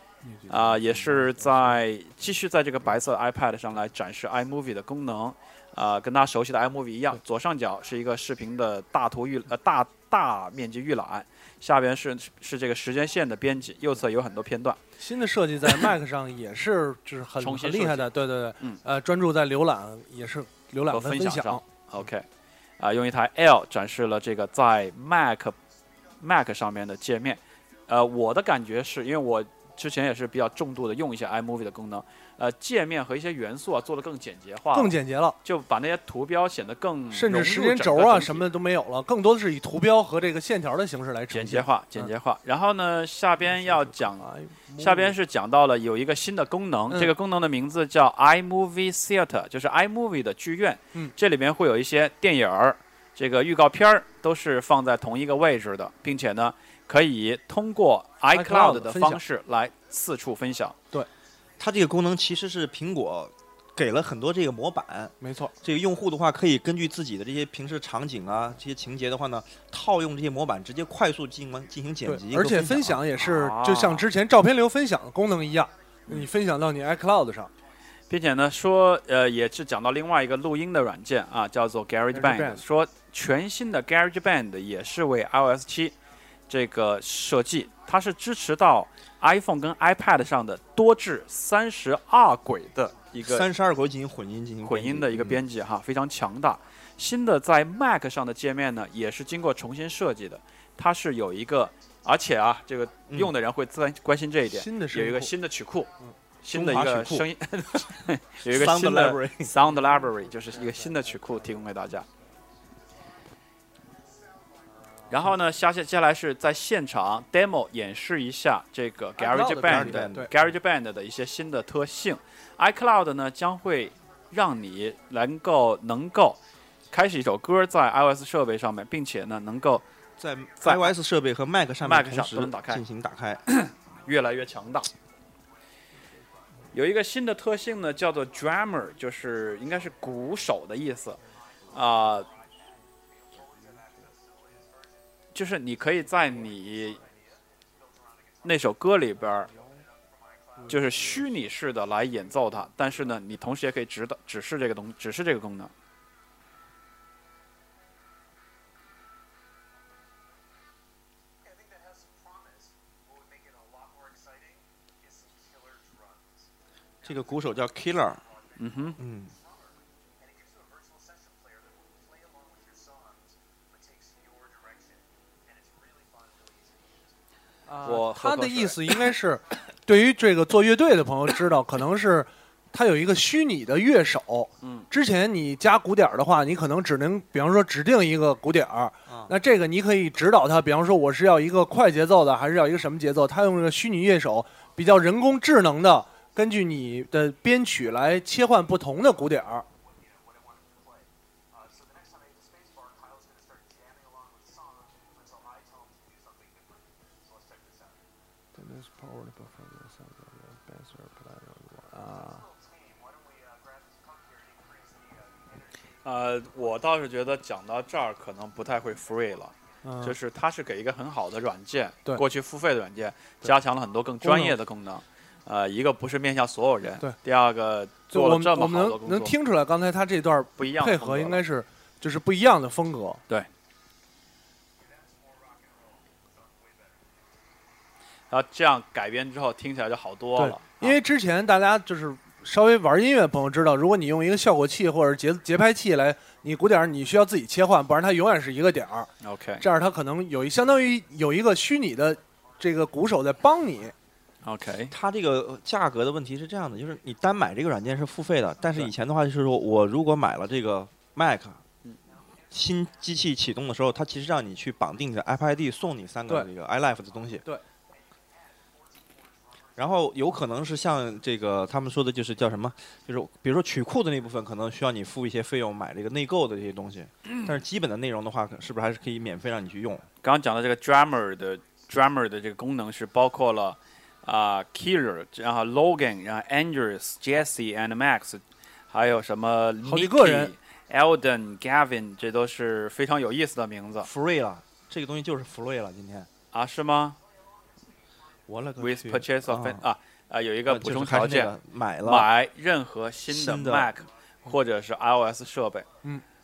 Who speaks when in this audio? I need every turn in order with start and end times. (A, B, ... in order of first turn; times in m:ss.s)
0:00.2-0:01.8 A
0:00.5-0:14.8 B
0:15.0-0:21.6 A
0:17.4-0:18.8 B
0:20.9-0:22.3 B
0:22.8-0:25.6 B
0:26.2-0:38.5 B
0:34.7-0:35.4 A
0:37.1-0:42.1 A
0:41.3-0:44.3 B
0:43.4-0:45.1 A
0:44.8-1:00.8 B
0:58.3-0:59.2 A
1:01.6-1:13.0 C
1:05.2-1:05.5 A
1:12.0-1:17.5 A
1:13.2-1:14.0 B
1:18.1-1:25.9 B
1:22.1-1:22.6 A
1:26.5-1:33.5 B
1:33.2-1:35.4 C
1:34.6-1:45.9 B
1:43.1-1:43.3 C
1:44.5-1:45.3 A
1:46.4-1:52.0 B
1:46.5-1:47.3 C
1:48.4-1:49.5 C
1:53.9-1:54.8 D
1:55.1-2:06.4 B
1:59.2-2:00.3 A
1:59.6-2:00.3 C
2:06.9-2:09.8 B
2:10.2-2:13.4 C
2:10.6-2:10.9 B
2:11.8-2:12.8 B
2:13.4-2:14.9 B
2:16.7-2:21.2 B
2:19.5-2:20.0 D
2:21.3-2:25.0 D
2:21.7-2:22.3 B
2:25.3-2:27.0 B
2:26.2-2:28.8 D
2:28.4-2:29.5 B
2:29.3-2:33.2 D
2:30.7-2:35.7 B
2:41.4-2:46.5 D
2:47.0-2:57.2 D
2:47.0-2:48.2 C
2:48.6-2:49.0 B
2:49.0-2:49.3 C
2:57.7-3:19.6 A
2:57.8-2:58.8 B
3:04.6-3:04.9 B
3:09.1-3:09.3 C
3:19.8-3:28.1 D
3:28.6-3:32.4 A
3:32.1-3:36.5 D
3:36.0-3:49.3 B
3:39.0-3:39.6 D
3:39.8-3:40.2 A
3:44.2-3:44.6 A
3:48.1-3:53.2 A
3:50.6-3:51.4 B
3:54.8-3:57.1 D
3:58.3-4:01.0 B
4:00.4-4:09.1 A
4:09.2-4:09.6 B
4:09.6-4:13.9 A
4:14.4-4:14.9 B
4:14.9-4:21.6 C
4:22.5-4:27.4 C
4:28.4-4:29.8 D
4:29.8-4:40.0 C
4:40.2-4:54.1 B
4:49.8-4:50.5 A
4:54.0-4:56.3 C
4:56.5-4:57.2 B
4:58.5-4:59.8 C
4:58.8-5:05.9 B
5:00.7-5:02.3 C
5:03.3-5:03.9 C